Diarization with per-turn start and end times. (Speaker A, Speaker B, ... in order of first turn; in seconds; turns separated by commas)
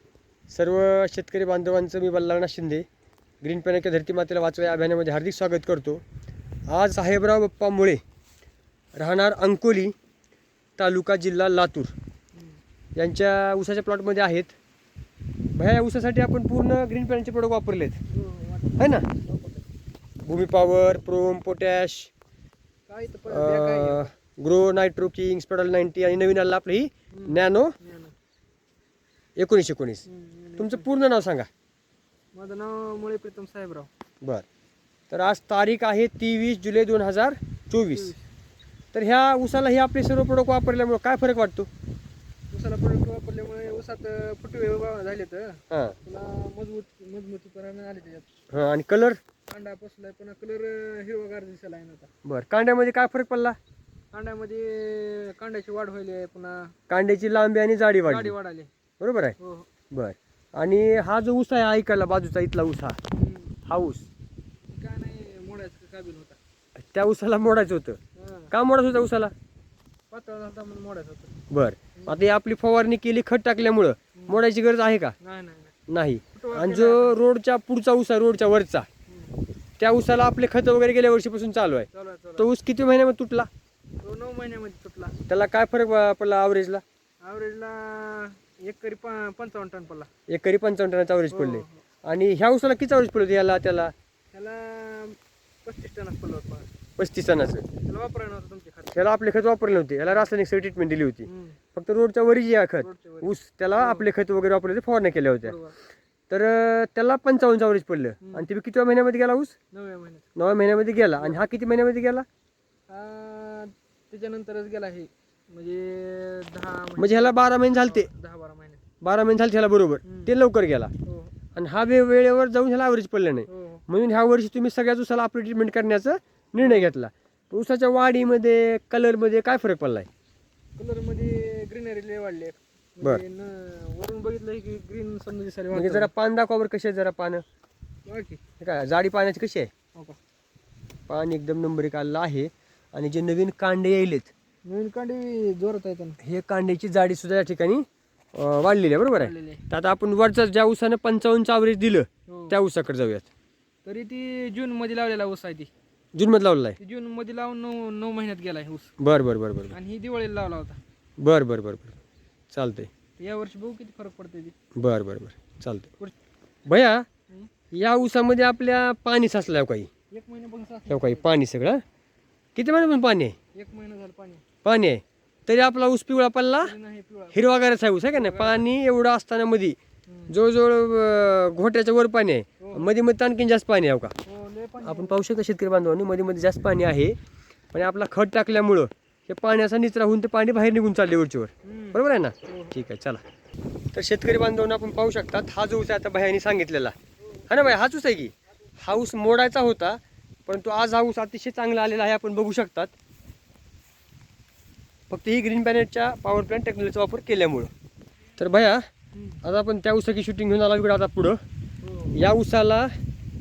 Speaker A: 0.5-2.9, Speaker A: 3.4-6.0, Speaker A: 6.7-8.0, Speaker A: 8.9-9.9, Speaker A: 10.8-11.9, Speaker B: 12.3-12.6, Speaker A: 13.0-14.6, Speaker A: 15.5-18.0, Speaker B: 18.1-19.6, Speaker A: 18.8-19.1, Speaker A: 20.2-22.1, Speaker B: 22.9-24.1, Speaker A: 23.3-27.7, Speaker B: 27.1-28.1, Speaker A: 29.4-30.1, Speaker B: 30.1-30.9, Speaker A: 30.6-31.5, Speaker B: 32.3-33.9, Speaker A: 35.1-38.1, Speaker B: 37.9-38.2, Speaker A: 38.9-41.7, Speaker B: 42.5-48.3, Speaker A: 45.7-46.0, Speaker A: 48.5-49.2, Speaker B: 49.5-52.1, Speaker A: 52.2-53.6, Speaker B: 54.1-56.7, Speaker A: 56.9-58.3, Speaker B: 58.0-58.7, Speaker A: 59.0-59.4, Speaker B: 59.4-59.7, Speaker A: 59.9-63.0, Speaker B: 63.1-63.6, Speaker A: 63.7-64.1, Speaker B: 64.7-66.4, Speaker A: 66.8-68.0, Speaker B: 68.2-68.5, Speaker A: 68.5-69.3, Speaker B: 70.1-71.3, Speaker A: 71.5-75.2, Speaker B: 72.0-72.2, Speaker B: 74.2-74.4, Speaker B: 75.2-75.7, Speaker A: 75.9-78.9, Speaker B: 76.3-77.2, Speaker B: 79.1-79.4, Speaker A: 79.8-83.5, Speaker B: 81.9-82.5, Speaker B: 84.0-85.2, Speaker A: 85.3-86.8, Speaker B: 87.2-90.1, Speaker A: 90.3-93.9, Speaker B: 91.3-91.8, Speaker B: 94.3-96.7, Speaker A: 97.0-97.7, Speaker B: 97.8-99.0, Speaker A: 98.9-105.6, Speaker B: 101.2-101.6, Speaker B: 102.8-104.1, Speaker B: 105.4-105.8, Speaker A: 106.3-109.5, Speaker B: 108.2-108.5, Speaker B: 109.7-110.2, Speaker A: 110.3-112.2, Speaker B: 112.9-118.8, Speaker A: 117.0-118.1, Speaker A: 119.0-120.9, Speaker B: 120.0-120.3, Speaker B: 121.1-121.3, Speaker A: 121.6-130.1, Speaker B: 123.5-123.8, Speaker B: 126.6-126.9, Speaker B: 130.8-136.1, Speaker A: 135.7-137.4, Speaker B: 138.1-138.4, Speaker A: 138.6-139.7, Speaker A: 141.1-144.3, Speaker B: 144.7-146.2, Speaker A: 146.2-153.3, Speaker B: 149.1-149.6, Speaker B: 152.3-152.6, Speaker B: 153.8-155.7, Speaker A: 156.1-156.8, Speaker B: 156.8-158.9, Speaker A: 159.0-159.8, Speaker B: 159.7-160.8, Speaker A: 161.2-162.0, Speaker A: 162.5-162.9, Speaker B: 163.2-164.5, Speaker A: 164.8-165.9, Speaker A: 166.7-167.1, Speaker A: 167.7-169.9, Speaker B: 170.1-171.3, Speaker A: 170.9-171.8, Speaker A: 172.5-173.4, Speaker B: 173.5-174.4, Speaker A: 174.6-176.7, Speaker B: 176.6-177.4, Speaker A: 177.3-179.8, Speaker B: 178.1-178.6, Speaker B: 180.1-180.3, Speaker A: 180.3-184.1, Speaker B: 182.6-182.9, Speaker B: 184.2-185.2, Speaker A: 184.8-187.2, Speaker A: 187.7-193.2, Speaker B: 191.6-192.8, Speaker A: 193.9-196.9, Speaker B: 197.2-197.5, Speaker A: 197.5-202.9, Speaker A: 205.1-207.7, Speaker A: 208.4-208.8, Speaker B: 209.1-209.4, Speaker A: 209.4-211.4, Speaker B: 211.8-212.2, Speaker A: 212.2-212.9